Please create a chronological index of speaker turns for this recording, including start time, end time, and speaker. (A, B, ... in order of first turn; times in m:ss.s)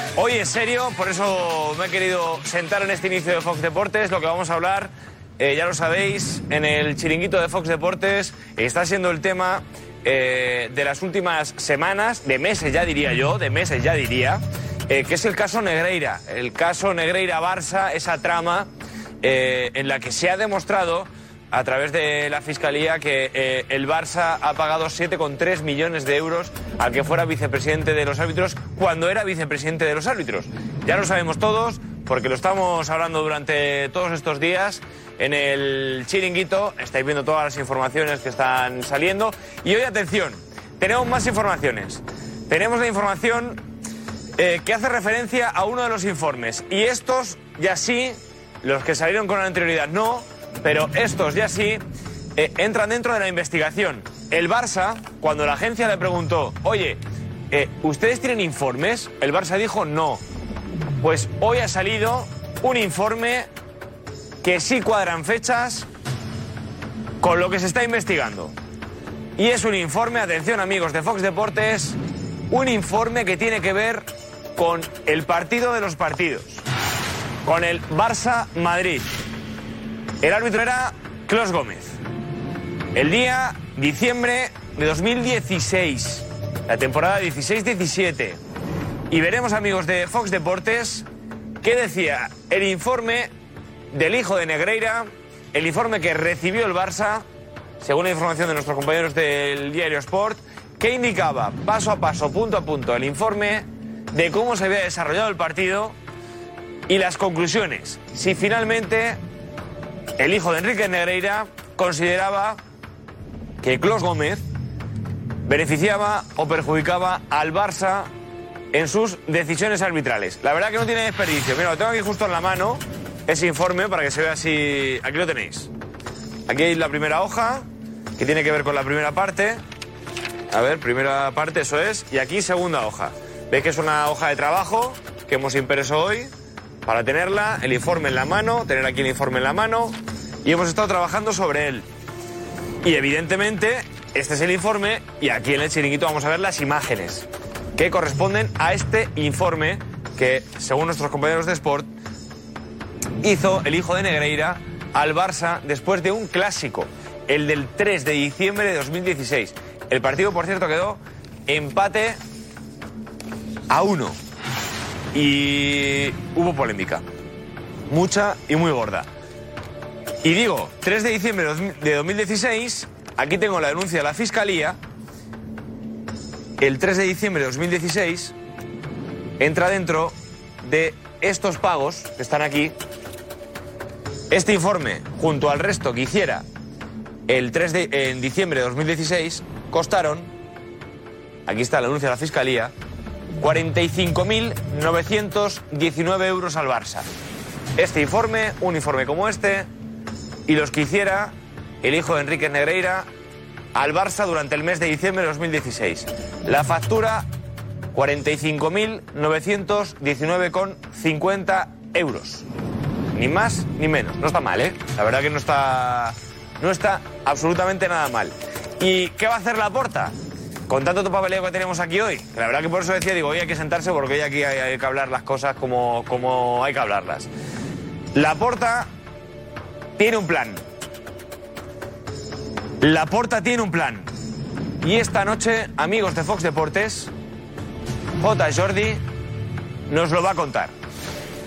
0:00.2-0:18.7 A
0:19.2-0:43.6 A
0:44.4-0:51.8 A
0:52.4-0:57.0 A
0:57.5-1:00.2 A
1:01.0-1:03.5 A
1:04.4-1:05.9 A
1:07.2-1:08.5 A
1:09.4-1:12.0 A
1:12.5-1:16.6 A
1:17.4-1:19.1 A
1:20.2-1:22.0 A
1:22.9-1:28.4 A
1:29.1-1:31.1 A
1:31.6-1:33.3 A
1:33.9-1:37.2 A
1:37.8-1:46.0 A
1:46.9-1:49.2 A
1:50.2-1:52.6 A
1:53.6-1:54.4 A
1:55.5-1:58.1 A
1:58.7-2:05.7 A
2:06.5-2:09.6 A
2:10.5-2:16.3 A
2:16.9-2:21.8 A
2:22.8-2:27.3 A
2:27.8-2:31.9 A
2:33.2-2:42.2 A
2:43.7-2:44.2 A
2:45.1-2:47.0 A
2:47.9-2:49.1 A
2:50.2-2:54.8 A
2:56.6-2:58.3 A
2:59.4-3:02.7 A
3:04.3-3:06.4 A
3:07.3-3:10.3 A
3:11.5-3:12.7 A
3:13.4-3:17.1 A
3:17.8-3:19.7 A
3:20.5-3:23.1 A
3:23.8-3:27.3 A
3:27.9-3:32.5 A
3:33.1-3:40.2 A
3:40.7-3:47.3 A
3:48.2-3:48.9 A
3:50.0-3:50.6 A
3:52.8-3:54.1 A
3:54.8-3:57.1 A
3:58.2-3:59.0 A
3:59.9-4:00.7 A